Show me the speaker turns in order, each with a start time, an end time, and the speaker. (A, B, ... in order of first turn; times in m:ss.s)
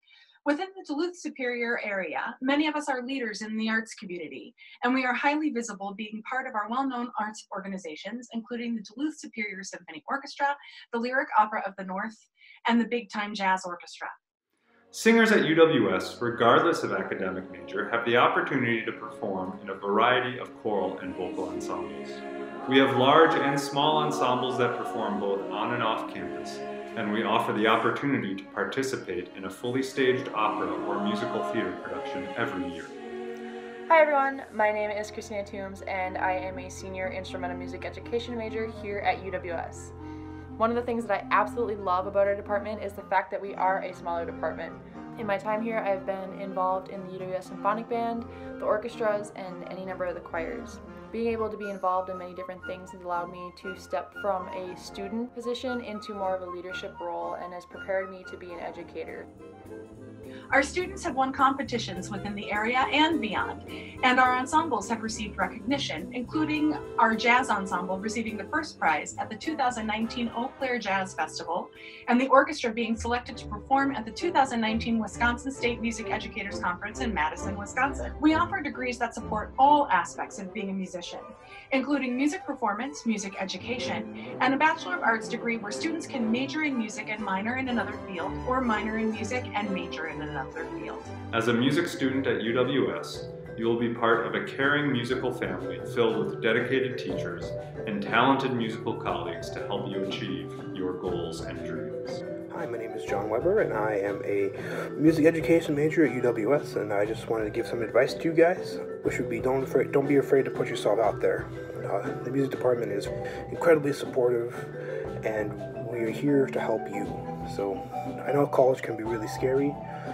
0:00.4-0:14.2 A
0:14.9-0:32.9 B
0:33.9-0:39.9 C
0:40.6-0:59.3 C
1:00.5-1:31.1 A
1:31.3-1:42.2 B
1:42.5-1:59.8 D